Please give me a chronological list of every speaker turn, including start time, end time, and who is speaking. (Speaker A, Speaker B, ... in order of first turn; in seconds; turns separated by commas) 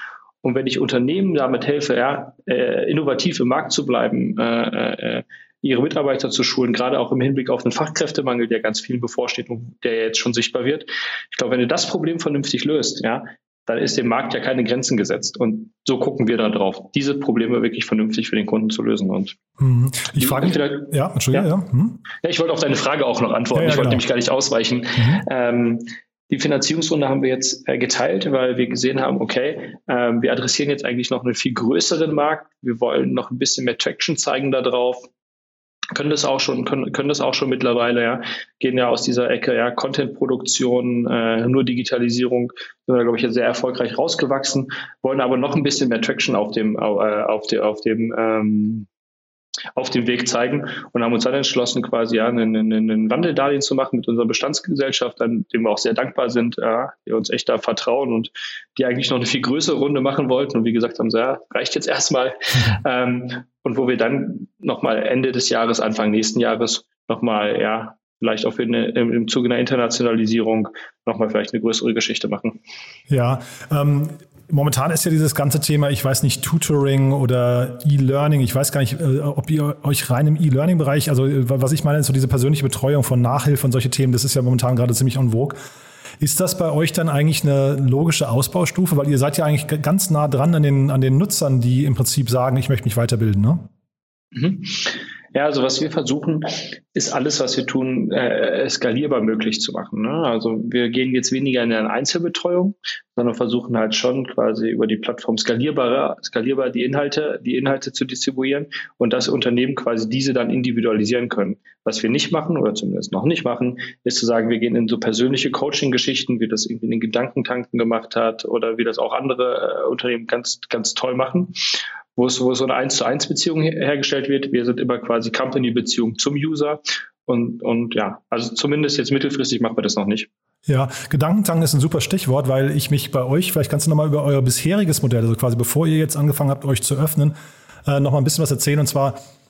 Speaker A: 0.4-19.4, Speaker B: 19.6-22.0, Speaker A: 20.2-21.5, Speaker A: 22.2-35.1, Speaker B: 23.6-24.0, Speaker B: 25.0-25.2, Speaker A: 35.9-48.9, Speaker A: 49.8-72.6, Speaker B: 73.1-85.6, Speaker B: 86.2-93.7, Speaker A: 94.3-121.6, Speaker A: 122.2-130.3, Speaker B: 130.7-139.2